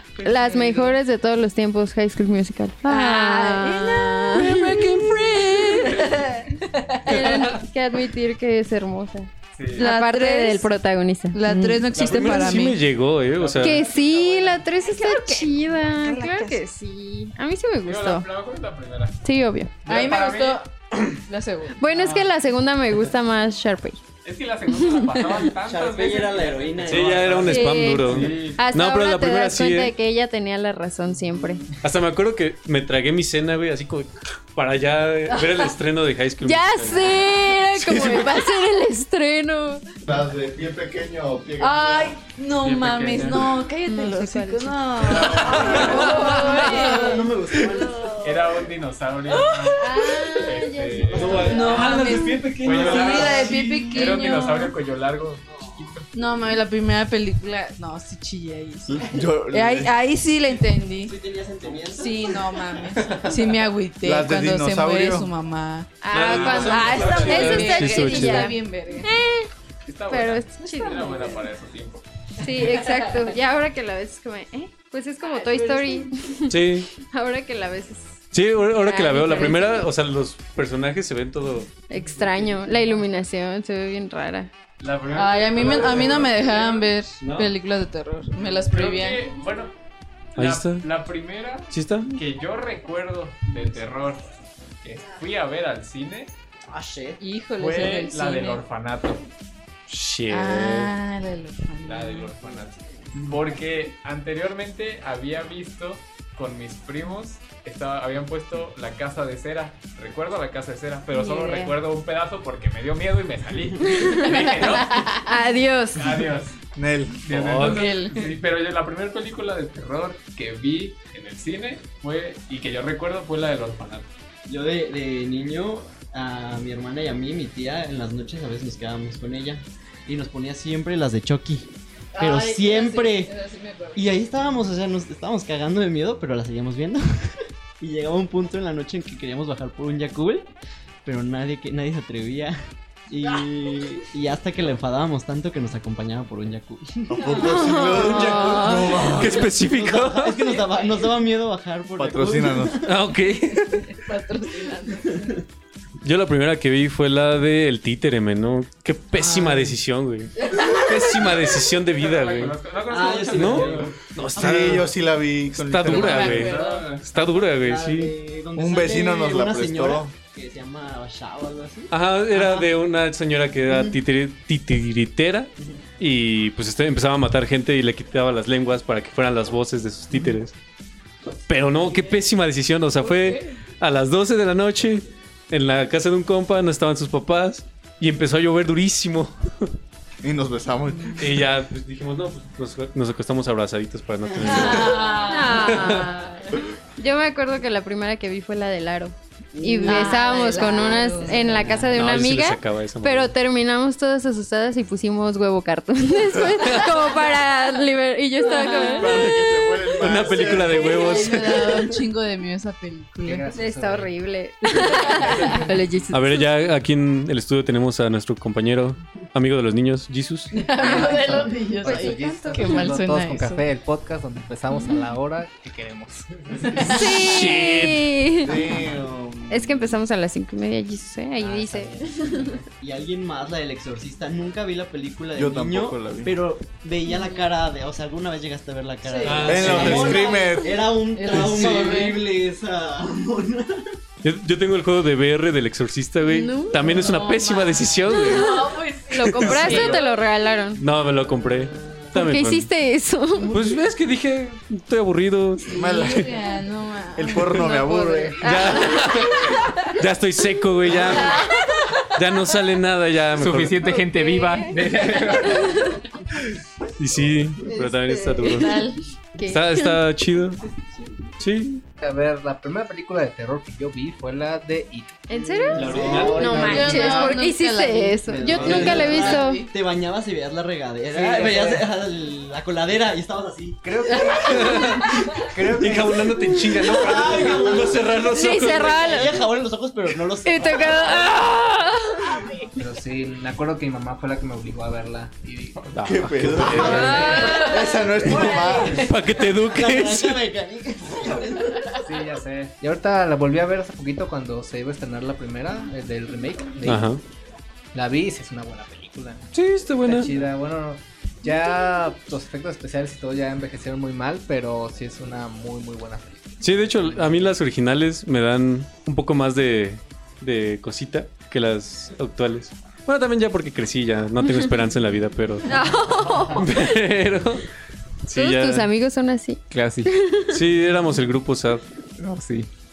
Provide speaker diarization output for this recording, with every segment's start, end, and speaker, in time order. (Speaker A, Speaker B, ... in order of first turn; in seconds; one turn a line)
Speaker A: 0.2-1.0
Speaker B: 0.2-5.1
Speaker A: 2.8-7.5
Speaker B: 7.0-11.8
Speaker C: 7.1-7.4
Speaker D: 9.6-9.9
Speaker A: 9.8-10.7
Speaker A: 11.3-12.8
Speaker C: 11.9-13.8
Speaker D: 13.3-14.5
Speaker B: 13.6-18.3
Speaker A: 14.8-16.6
Speaker D: 17.8-19.2
Speaker B: 19.2-19.7
Speaker D: 19.8-20.6
Speaker A: 19.8-20.7
Speaker A: 21.3-21.8
Speaker B: 21.8-24.0
Speaker D: 21.9-22.2
Speaker D: 24.2-28.6
Speaker B: 24.8-25.4
Speaker E: 25.6-27.8
Speaker C: 26.8-29.9
Speaker B: 27.4-31.6
Speaker C: 31.8-38.4
Speaker A: 35.3-35.7
Speaker B: 36.4-39.8
Speaker F: 40.0-42.2
Speaker A: 41.6-48.4
Speaker D: 42.6-43.5
Speaker B: 43.8-47.2
Speaker F: 45.1-45.8
Speaker E: 45.4-48.3
Speaker C: 45.5-46.7
Speaker D: 48.2-52.0
Speaker A: 49.3-50.4
Speaker B: 49.8-51.5
Speaker E: 51.1-51.8
Speaker C: 51.1-54.0
Speaker A: 51.3-54.7
Speaker D: 52.6-56.1
Speaker E: 55.5-56.0
Speaker A: 56.1-61.1
Speaker F: 58.9-59.9
Speaker E: 61.0-63.1
Speaker A: 61.9-69.1
Speaker D: 63.1-63.4
Speaker F: 64.0-65.3
Speaker B: 66.0-69.5
Speaker C: 66.1-68.5
Speaker D: 66.2-68.0
Speaker D: 69.8-72.0
Speaker B: 70.1-71.4
Speaker B: 72.4-78.2
Speaker A: 72.8-73.3
Speaker A: 75.2-76.1
Speaker C: 76.5-76.9
Speaker C: 78.3-81.7
Speaker B: 78.7-79.9
Speaker A: 79.3-79.6
Speaker B: 81.9-84.5
Speaker D: 84.8-86.9
Speaker A: 85.1-89.3
Speaker C: 87.2-87.5
Speaker D: 88.7-89.7
Speaker D: 90.3-96.3
Speaker C: 90.4-90.8
Speaker C: 91.7-92.1
Speaker E: 96.7-97.2
Speaker A: 97.2-98.6
Speaker D: 97.6-99.2
Speaker C: 99.9-100.9
Speaker A: 100.3-102.3
Speaker D: 101.8-115.2
Speaker B: 111.1-111.8
Speaker B: 113.8-114.7
Speaker A: 114.7-115.3
Speaker B: 115.2-116.2
Speaker D: 115.9-116.5
Speaker F: 116.7-117.2
Speaker D: 117.2-124.1
Speaker C: 117.3-117.8
Speaker A: 117.6-118.3
Speaker E: 124.5-133.3
Speaker A: 132.1-134.1
Speaker E: 133.9-140.5
Speaker E: 141.0-153.0
Speaker F: 147.1-149.3
Speaker A: 147.2-149.5
Speaker C: 149.1-150.6
Speaker A: 150.6-151.0
Speaker F: 151.9-152.9
Speaker C: 152.8-153.9
Speaker A: 153.5-155.3
Speaker E: 155.0-155.3
Speaker C: 156.0-162.6
Speaker A: 159.2-159.7
Speaker A: 160.5-161.1
Speaker D: 161.9-164.0
Speaker E: 162.9-164.0
Speaker C: 163.3-164.9
Speaker F: 164.3-166.4
Speaker C: 165.5-168.1
Speaker A: 165.8-166.9
Speaker D: 165.9-167.1
Speaker E: 167.1-171.9
Speaker F: 168.5-170.1
Speaker C: 171.9-180.5
Speaker C: 181.5-189.7
Speaker A: 183.0-183.4
Speaker F: 190.2-191.5
Speaker C: 191.2-196.2
Speaker E: 194.2-195.3
Speaker A: 194.4-196.5
Speaker B: 195.3-196.4
Speaker B: 197.0-209.4
Speaker A: 199.6-201.9
Speaker E: 199.8-200.2
Speaker C: 201.9-203.3
Speaker C: 206.5-207.0
Speaker A: 208.4-209.5
Speaker F: 208.9-210.9
Speaker C: 210.0-211.8
Speaker A: 210.3-213.5
Speaker G: 213.2-214.1
Speaker B: 213.5-216.5
Speaker A: 214.8-215.6
Speaker G: 215.3-215.8
Speaker C: 216.1-220.5
Speaker A: 220.5-223.7
Speaker G: 220.8-227.0
Speaker B: 220.8-222.9
Speaker B: 224.7-225.1
Speaker A: 226.7-227.5
Speaker B: 226.8-228.6
Speaker C: 226.9-228.1
Speaker F: 228.4-230.0
Speaker B: 229.5-232.6
Speaker E: 231.4-243.9
Speaker F: 235.3-236.4
Speaker B: 237.1-237.4
Speaker A: 239.0-242.3
Speaker C: 239.2-240.2
Speaker F: 239.4-240.8
Speaker C: 241.6-241.9
Speaker C: 244.2-248.7
Speaker A: 246.2-250.2
Speaker B: 246.4-246.7
Speaker B: 249.1-250.8
Speaker C: 249.4-250.0
Speaker C: 250.7-252.7
Speaker B: 252.1-253.5
Speaker C: 253.4-256.3
Speaker F: 255.7-256.3
Speaker A: 255.8-259.9
Speaker F: 257.1-258.5
Speaker C: 258.4-261.5
Speaker B: 258.9-259.3
Speaker A: 261.1-262.1
Speaker B: 261.1-261.6
Speaker C: 262.1-263.9
Speaker D: 263.4-265.8
Speaker B: 263.9-266.0
Speaker C: 267.0-268.9
Speaker E: 267.7-268.1
Speaker A: 268.4-269.0
Speaker B: 268.4-270.0
Speaker C: 269.4-270.6
Speaker C: 271.4-271.8
Speaker G: 272.0-275.2
Speaker B: 275.3-279.6
Speaker E: 275.3-277.4
Speaker C: 275.7-277.0
Speaker A: 276.5-279.7
Speaker E: 278.3-284.3
Speaker G: 278.6-279.2
Speaker C: 278.6-279.0
Speaker G: 281.1-281.9
Speaker G: 283.8-284.8
Speaker B: 284.1-285.2
Speaker C: 284.5-289.4
Speaker G: 285.5-287.5
Speaker E: 286.8-288.1
Speaker B: 288.2-289.4
Speaker E: 288.7-291.5
Speaker B: 290.4-292.2
Speaker G: 292.7-295.9
Speaker D: 295.8-296.7
Speaker C: 295.9-297.3
Speaker F: 296.0-299.1
Speaker G: 296.7-297.4
Speaker E: 296.8-297.5
Speaker A: 296.8-299.6
Speaker C: 299.0-300.4
Speaker E: 299.6-302.2
Speaker G: 302.0-307.1
Speaker C: 306.8-307.2
Speaker G: 307.9-309.5
Speaker C: 309.5-310.4
Speaker G: 310.0-317.6
Speaker C: 316.6-327.7
Speaker B: 325.6-327.0
Speaker C: 328.2-328.9
Speaker B: 328.3-330.6
Speaker D: 329.7-330.1
Speaker C: 330.5-331.8
Speaker D: 332.2-332.7